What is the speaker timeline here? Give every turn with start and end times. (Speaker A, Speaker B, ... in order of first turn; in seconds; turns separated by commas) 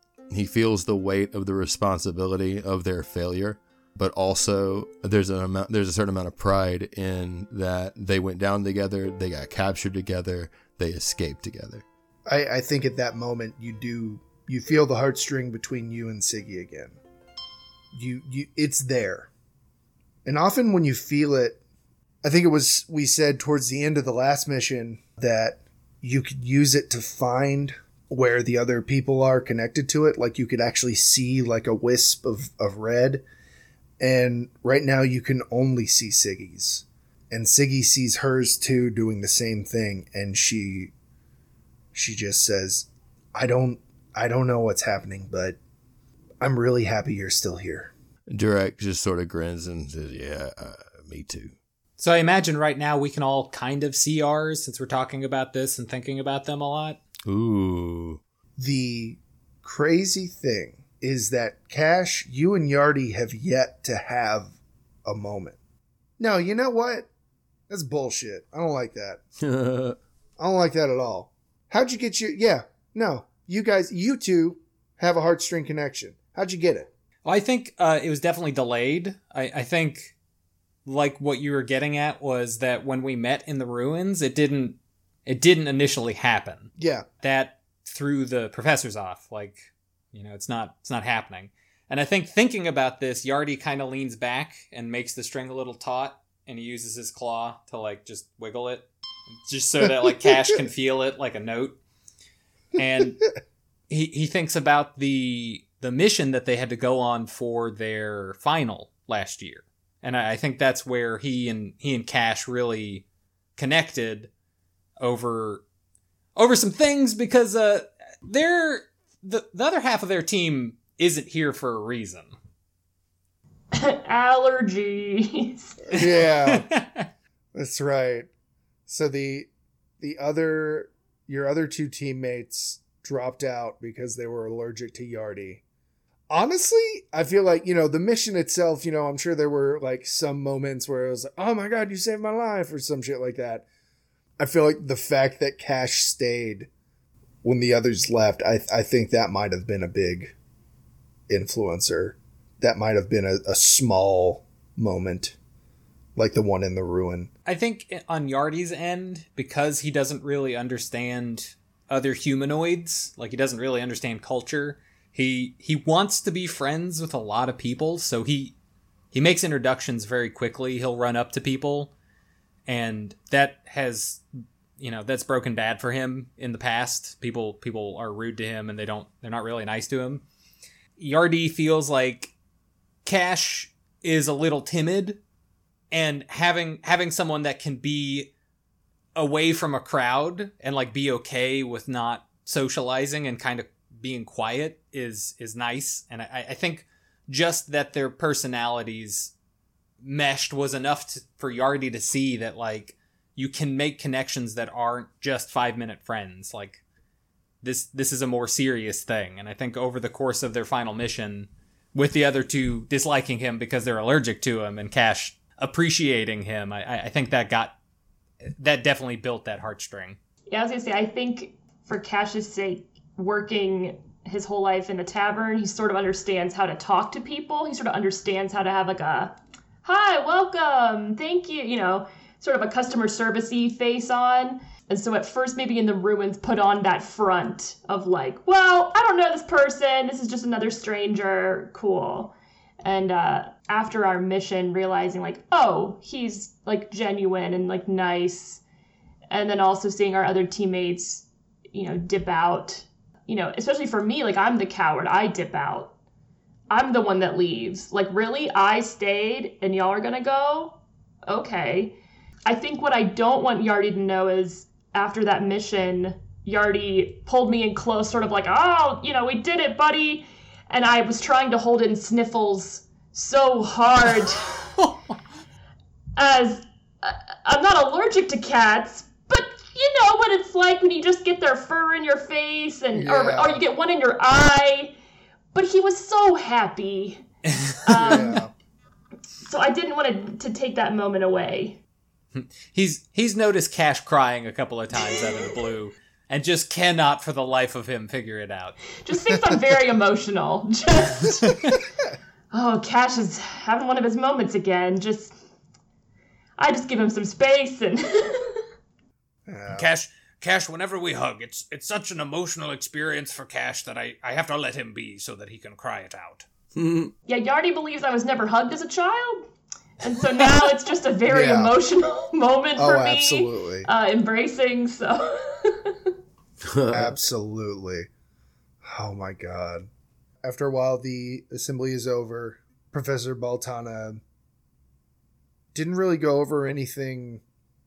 Speaker A: 0.3-11.8, Speaker B: 12.2-17.0, Speaker B: 17.9-19.3, Speaker B: 20.2-21.6, Speaker B: 22.2-33.2, Speaker B: 34.0-40.9, Speaker B: 41.9-45.6, Speaker B: 46.4-47.9, Speaker A: 48.3-51.5, Speaker C: 52.0-57.0, Speaker A: 57.2-58.2, Speaker B: 58.6-65.6, Speaker B: 66.2-67.1, Speaker B: 67.7-69.2, Speaker A: 69.4-70.0, Speaker B: 70.4-76.9, Speaker C: 77.2-80.1, Speaker C: 80.8-98.9, Speaker B: 86.8-87.0, Speaker C: 99.5-101.8, Speaker C: 102.8-103.2, Speaker C: 103.9-114.3, Speaker C: 115.0-115.6, Speaker C: 116.3-122.3, Speaker D: 123.7-125.9, Speaker B: 125.9-126.7, Speaker C: 125.9-127.0, Speaker B: 127.5-128.3, Speaker B: 128.9-135.6, Speaker B: 136.3-143.7, Speaker B: 144.4-146.7, Speaker B: 147.4-150.3, Speaker B: 151.3-155.4, Speaker B: 156.2-157.3, Speaker C: 157.4-168.5, Speaker C: 169.1-171.9, Speaker C: 172.7-174.2, Speaker C: 174.8-180.2, Speaker C: 181.0-182.3, Speaker C: 183.0-185.2, Speaker C: 185.9-188.3, Speaker C: 189.2-199.3, Speaker C: 200.0-206.8, Speaker C: 207.6-217.8, Speaker C: 218.4-220.2, Speaker D: 220.5-248.6, Speaker D: 249.3-255.9, Speaker D: 256.7-274.7, Speaker D: 276.1-284.9, Speaker B: 282.9-283.6, Speaker D: 285.5-287.2, Speaker C: 287.5-288.3, Speaker D: 287.8-288.4, Speaker B: 287.9-288.5, Speaker D: 289.4-291.8, Speaker C: 292.3-298.8, Speaker D: 299.0-301.8, Speaker C: 301.4-301.8, Speaker D: 302.5-305.3, Speaker D: 306.6-308.6, Speaker B: 309.5-309.9, Speaker E: 309.7-316.4, Speaker A: 316.8-317.1, Speaker D: 317.3-319.5, Speaker D: 320.0-326.1, Speaker B: 321.3-321.8, Speaker B: 322.8-323.9, Speaker A: 326.6-327.2, Speaker B: 326.9-328.1, Speaker B: 328.8-329.9, Speaker B: 330.4-334.2, Speaker B: 335.7-337.4